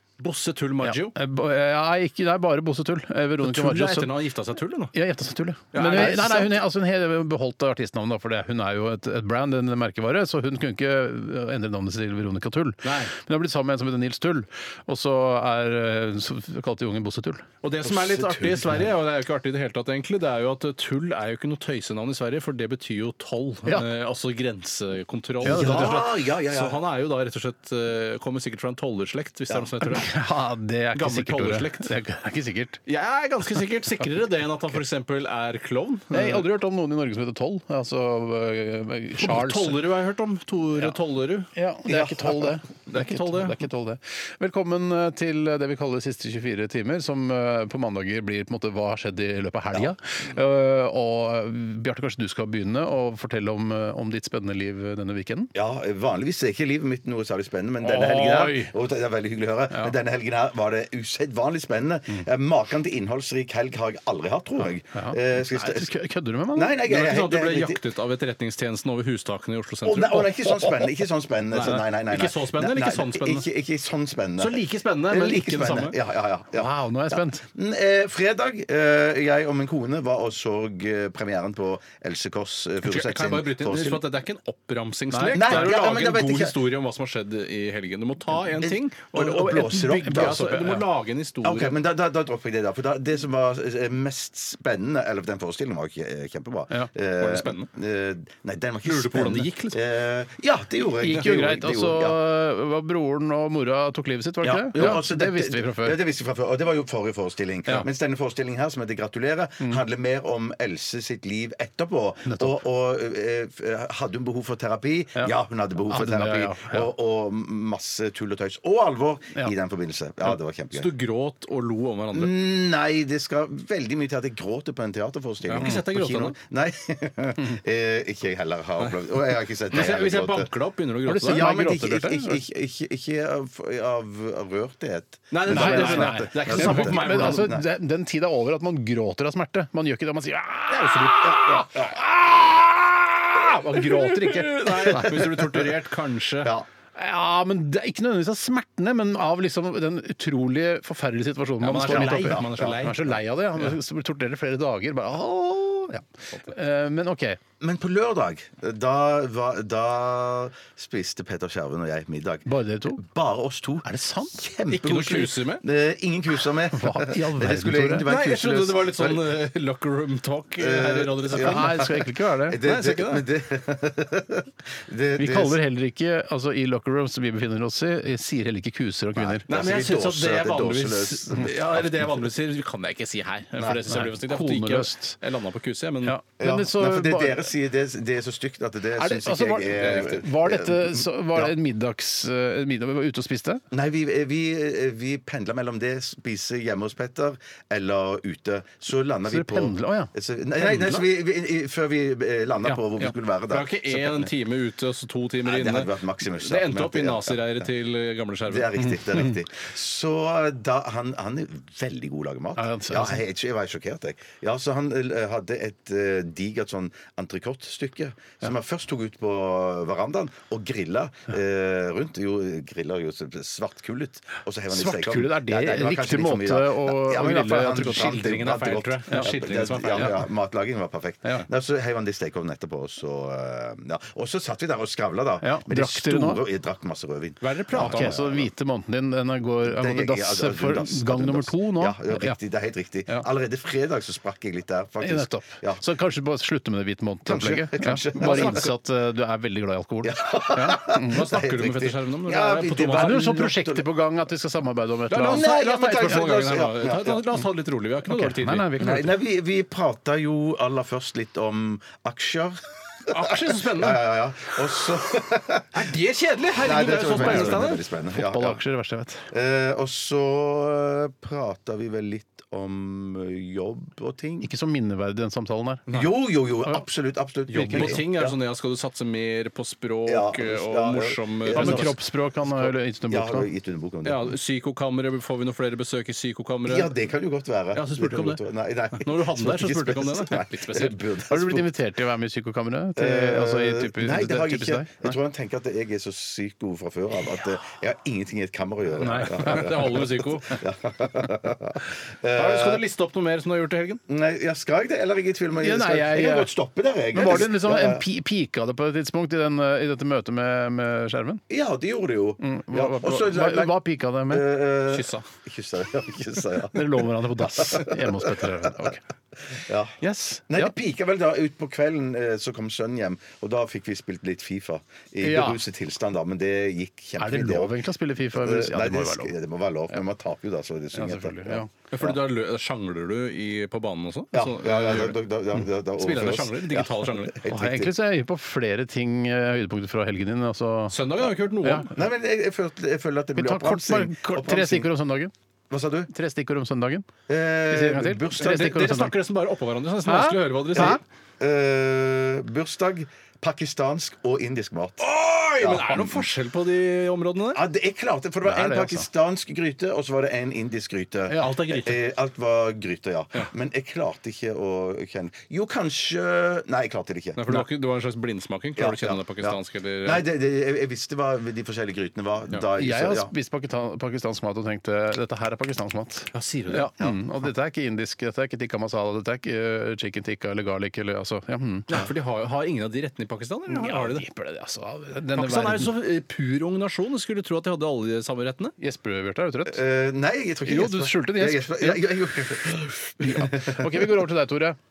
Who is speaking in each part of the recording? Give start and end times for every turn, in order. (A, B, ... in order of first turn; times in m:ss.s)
0:00.2-0:01.2 A
0:00.8-0:04.1 B
0:03.4-0:04.9 A
0:04.9-0:17.5 B
0:05.7-0:06.5 A
0:12.8-0:13.1 A
0:17.6-0:30.1 A
0:17.8-0:18.9 C
0:25.4-0:26.8 C
0:25.4-0:26.0 B
0:29.8-0:32.8 B
0:31.0-0:31.9 A
0:32.9-0:36.5 A
0:36.1-0:39.8 B
0:39.2-0:41.5 A
0:41.5-0:55.5 B
0:41.9-0:42.4 C
0:42.9-0:43.6 A
0:55.5-1:05.9 C
0:57.8-0:58.7 B
1:04.9-1:06.8 B
1:06.5-1:07.8 C
1:06.9-1:10.9 A
1:09.8-1:24.1 C
1:11.5-1:13.5 A
1:14.4-1:16.0 A
1:16.6-1:17.4 B
1:22.8-1:31.8 A
1:25.1-1:25.7 B
1:25.3-1:26.6 C
1:28.5-1:30.6 C
1:29.5-1:30.9 B
1:31.4-1:42.2 C
1:37.2-1:37.7 A
1:38.8-1:39.8 A
1:41.0-1:46.0 B
1:41.1-1:41.4 A
1:44.4-2:00.9 C
1:52.3-1:52.6 B
1:55.9-1:56.9 B
2:00.7-2:02.3 A
2:02.1-2:10.5 C
2:05.5-2:06.4 A
2:09.7-2:11.5 A
2:11.1-2:12.4 B
2:11.2-2:17.7 C
2:15.3-2:17.5 A
2:15.5-2:25.5 B
2:20.7-2:21.7 A
2:21.3-2:22.0 C
2:23.7-2:26.6 A
2:25.0-2:25.5 C
2:27.0-2:37.4 B
2:31.6-2:33.7 A
2:31.8-2:32.8 C
2:37.6-2:49.3 C
2:42.5-2:43.0 B
2:43.8-2:44.4 B
2:44.7-2:45.6 A
2:46.7-2:48.1 B
2:48.1-2:51.9 A
2:50.6-2:55.6 C
2:51.4-2:52.6 B
2:52.6-2:53.2 A
2:55.2-2:59.4 B
2:59.2-3:02.2 C
2:59.5-3:06.2 A
3:03.9-3:05.2 B
3:06.0-3:07.5 B
3:06.4-3:11.5 C
3:09.0-3:13.6 B
3:09.8-3:10.1 A
3:13.7-3:24.3 C
3:19.3-3:20.1 B
3:22.6-3:23.1 B
3:23.5-3:28.8 A
3:25.4-3:27.7 C
3:28.5-3:58.5 C
3:32.6-3:33.2 B
3:44.7-3:48.3 B
3:47.8-3:50.2 A
3:55.4-3:56.4 B
3:57.4-3:58.2 A
3:57.7-4:02.4 B
3:59.6-4:05.8 C
4:05.0-4:11.2 B
4:07.3-4:08.7 C
4:08.2-4:08.7 A
4:10.0-4:13.9 C
4:11.0-4:13.4 A
4:12.9-4:15.5 B
4:15.1-4:18.8 A
4:15.3-4:17.2 C
4:18.1-4:19.1 B
4:18.8-4:25.8 C
4:23.1-4:24.0 A
4:25.7-4:27.8 A
4:26.6-4:28.6 C
4:27.1-4:29.3 B
4:29.3-4:34.5 C
4:34.4-4:35.8 B
4:35.9-4:38.3 C
4:37.5-4:42.7 A
4:37.5-4:38.0 B
4:40.1-4:41.9 C
4:41.5-4:43.5 B
4:43.1-4:44.3 C
4:44.0-4:46.9 A
4:46.6-4:51.7 C
4:47.7-4:51.0 A
4:51.3-4:55.2 B
4:53.0-5:02.8 C
4:59.0-4:59.7 B
4:59.1-5:00.6 A
5:02.3-5:04.0 A
5:04.1-5:08.1 C
5:05.6-5:06.5 B
5:07.1-5:11.4 B
5:11.5-5:18.7 C
5:12.4-5:14.5 B
5:14.9-5:15.3 A
5:16.7-5:19.0 B
5:19.5-5:20.0 C
5:20.0-5:20.7 B
5:20.5-5:27.8 C
5:25.2-5:25.6 B
5:27.2-5:29.3 B
5:28.3-5:32.2 C
5:30.9-5:31.7 B
5:31.9-5:35.2 A
5:34.3-5:37.9 C
5:36.0-5:37.4 A
5:37.5-5:41.0 B
5:40.9-5:41.9 A
5:41.6-5:41.9 B
5:41.9-5:44.9 C
5:43.4-5:45.3 B
5:45.7-5:46.1 C
5:46.1-5:47.1 B
5:47.3-5:48.8 C
5:47.7-5:49.2 B
5:48.4-5:51.0 A
5:50.0-5:51.0 B
5:50.8-5:55.1 C
5:55.0-5:57.6 A
5:55.6-5:56.2 C
5:57.5-6:07.4 C
5:58.4-5:59.1 B
6:01.3-6:02.0 A
6:07.4-6:10.2 A
6:08.8-6:13.3 C
6:12.8-6:22.1 B
6:16.3-6:16.9 A
6:21.9-6:24.2 A
6:23.7-6:25.9 B
6:25.4-6:28.8 A
6:28.8-6:29.8 B
6:29.7-6:34.1 C
6:30.7-6:32.7 B
6:33.2-6:34.8 B